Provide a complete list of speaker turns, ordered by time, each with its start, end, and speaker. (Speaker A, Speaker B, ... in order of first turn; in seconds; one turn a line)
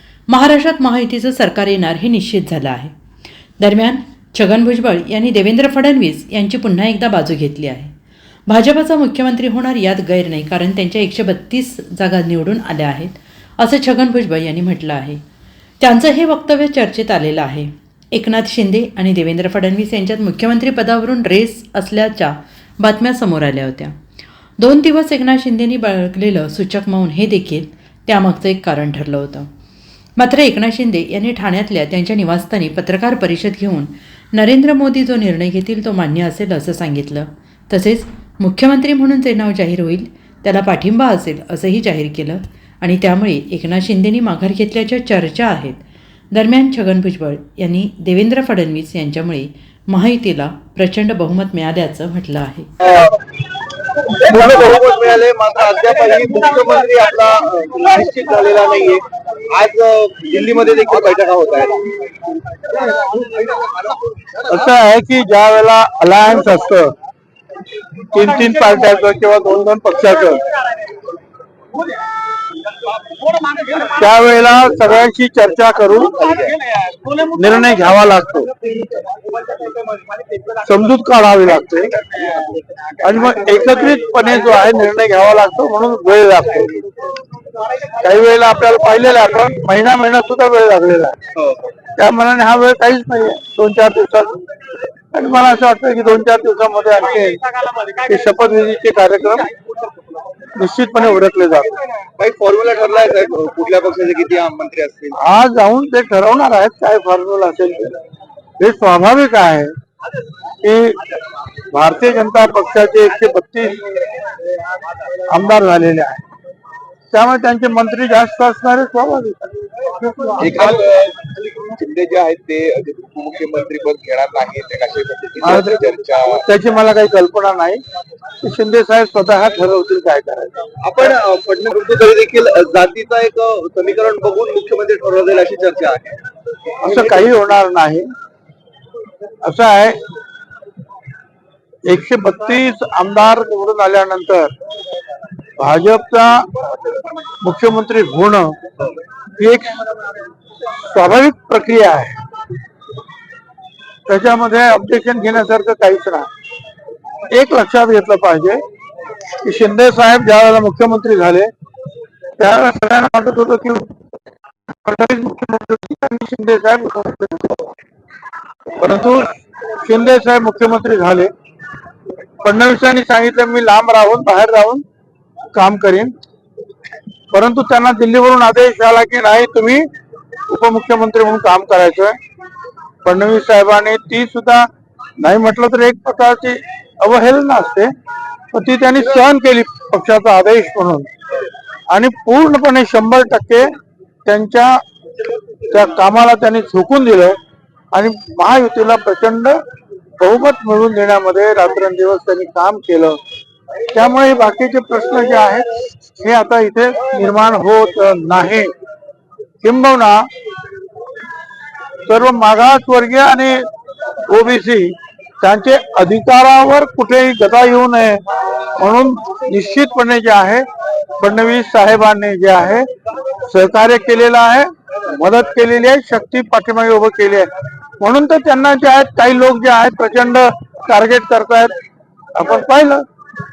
Speaker A: 0.3-2.9
Speaker A: 3.6-7.9
Speaker A: 8.5-15.2
Speaker A: 15.8-23.9
Speaker A: 24.6-29.5
Speaker A: 30.2-45.8
Speaker A: 46.3-52.7
Speaker B: 52.8-53.1
Speaker B: 54.2-61.9
Speaker C: 54.3-54.6
Speaker C: 64.5-66.9
Speaker C: 68.1-70.4
Speaker C: 73.8-76.2
Speaker B: 76.3-76.5
Speaker C: 77.2-78.5
Speaker C: 80.6-82.0
Speaker C: 83.0-86.7
Speaker C: 88.0-91.2
Speaker C: 92.0-94.4
Speaker C: 95.1-97.4
Speaker C: 98.0-99.5
Speaker C: 100.5-101.7
Speaker B: 102.2-105.2
Speaker C: 105.2-107.9
Speaker C: 108.6-109.7
Speaker C: 110.6-111.0
Speaker C: 111.7-113.8
Speaker C: 115.3-116.2
Speaker C: 117.1-119.5
Speaker B: 120.4-126.5
Speaker C: 125.4-125.7
Speaker C: 126.4-127.8
Speaker C: 128.4-130.6
Speaker B: 130.8-136.2
Speaker C: 136.8-138.1
Speaker C: 139.4-140.0
Speaker C: 141.8-144.5
Speaker C: 145.6-146.5
Speaker C: 147.4-148.5
Speaker C: 149.4-149.8
Speaker C: 150.8-152.2
Speaker C: 154.1-156.3
Speaker C: 157.3-158.6
Speaker C: 159.4-161.5
Speaker C: 162.4-163.9
Speaker C: 164.8-167.7
Speaker C: 168.8-171.3
Speaker C: 172.4-174.8
Speaker C: 175.5-176.1
Speaker C: 177.3-179.8
Speaker C: 180.5-182.2
Speaker C: 183.0-184.7
Speaker C: 185.2-187.9
Speaker C: 188.5-191.1
Speaker C: 191.9-193.7
Speaker C: 194.2-194.8
Speaker C: 195.7-197.3
Speaker C: 197.9-199.6
Speaker C: 200.2-203.2
Speaker C: 203.9-205.7
Speaker C: 206.2-208.7
Speaker C: 209.6-210.3
Speaker C: 212.1-213.6
Speaker C: 214.3-218.2
Speaker C: 218.8-220.6
Speaker C: 221.2-222.8
Speaker C: 223.5-227.5
Speaker C: 228.0-231.7
Speaker C: 232.3-233.0